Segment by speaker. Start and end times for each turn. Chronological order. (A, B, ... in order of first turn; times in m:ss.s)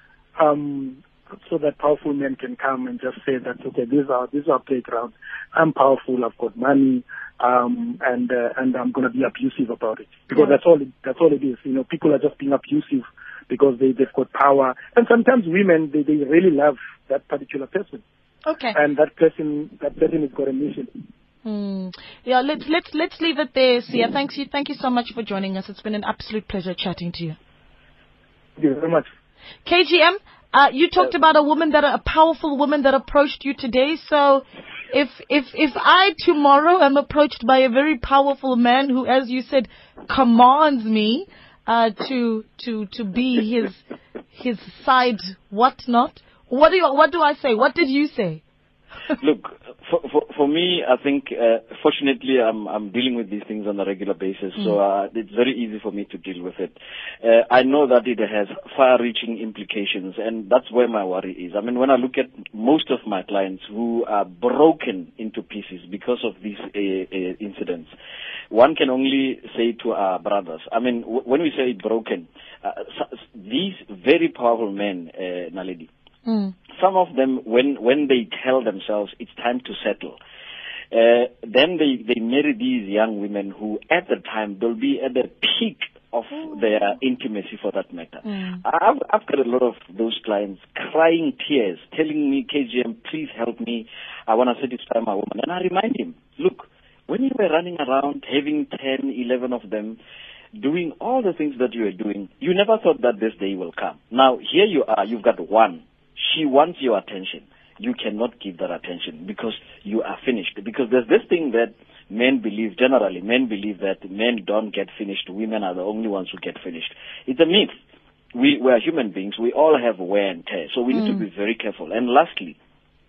0:00.4-0:18.0 A
0:18.5-0:18.8 B
0:18.7-0:20.9 A
0:21.4-0:27.4 B
0:28.6-0:29.1 A
0:29.6-0:43.8 B
0:44.3-0:48.4 B
0:49.2-1:07.9 C
1:08.5-1:15.9 C
1:16.2-1:16.5 B
1:16.7-1:20.2 C
1:20.9-1:40.0 C
1:26.3-1:26.8 B
1:28.2-1:28.6 B
1:40.5-1:57.7 C
1:58.3-2:02.6 C
2:00.9-2:01.2 B